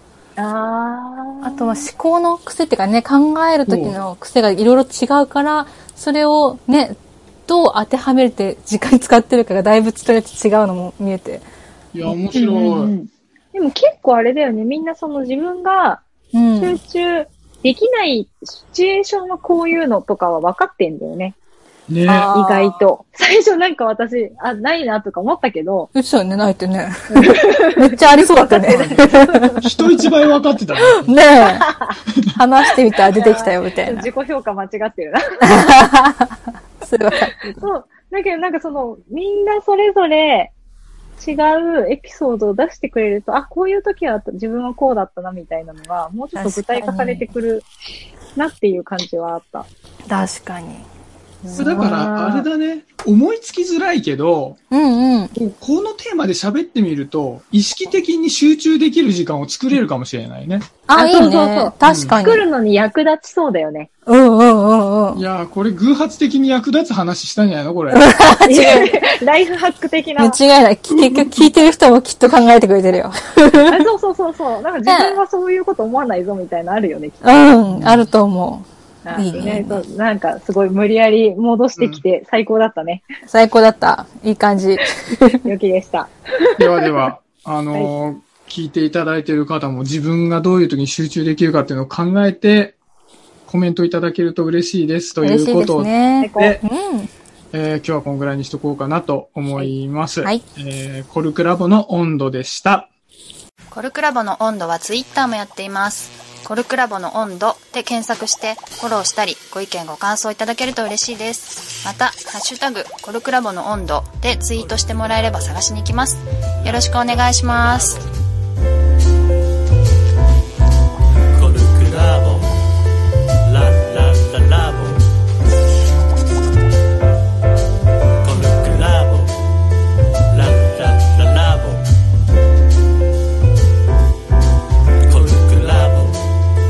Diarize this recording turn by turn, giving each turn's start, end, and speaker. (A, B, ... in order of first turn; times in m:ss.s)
0:00.4-0:01.9 A
0:01.4-0:07.0 B
0:03.6-0:03.9 C
0:07.5-0:11.4 B
0:11.9-0:12.9 C
0:12.3-0:16.0 A
0:16.3-0:16.8 B
0:16.6-0:21.4 A
0:21.9-0:22.3 C
0:22.1-0:22.8 B
0:22.1-0:25.9 A
0:25.9-0:29.7 B
0:27.1-0:29.6 A
0:29.6-0:31.1 C
0:31.0-0:31.7 B
0:31.4-0:32.0 A
0:32.3-0:34.1 B
0:33.1-0:35.6 A
0:35.4-0:37.7 B
0:37.6-0:40.5 A
0:41.2-0:47.6 A
0:46.4-0:47.3 B
0:48.4-0:49.7 A
0:50.1-0:50.8 B
0:51.4-0:52.5 A
0:51.5-0:51.9 B
0:51.6-0:54.6 C
0:54.7-0:55.3 B
0:55.5-1:00.7 C
1:00.9-1:02.4 B
1:00.9-1:03.9 A
1:01.8-1:02.2 C
1:04.0-1:05.2 B
1:05.1-1:08.0 C
1:07.9-1:08.9 B
1:08.4-1:10.4 A
1:10.2-1:13.9 B
1:10.9-1:11.5 C
1:13.6-1:17.2 A
1:14.9-1:15.2 B
1:17.2-1:19.8 B
1:17.7-1:18.1 C
1:19.0-1:23.0 A
1:21.8-1:22.0 C
1:23.3-1:25.4 B
1:25.4-1:26.9 A
1:26.6-1:32.8 C
1:33.4-1:36.6 C
1:35.2-1:37.1 B
1:36.2-1:36.6 A
1:37.5-1:42.9 C
1:43.7-1:58.1 D
2:01.3-2:02.5 D
2:03.5-2:05.0 D
2:08.2-2:09.3 D
2:10.3-2:11.8 D
2:15.1-2:16.2 D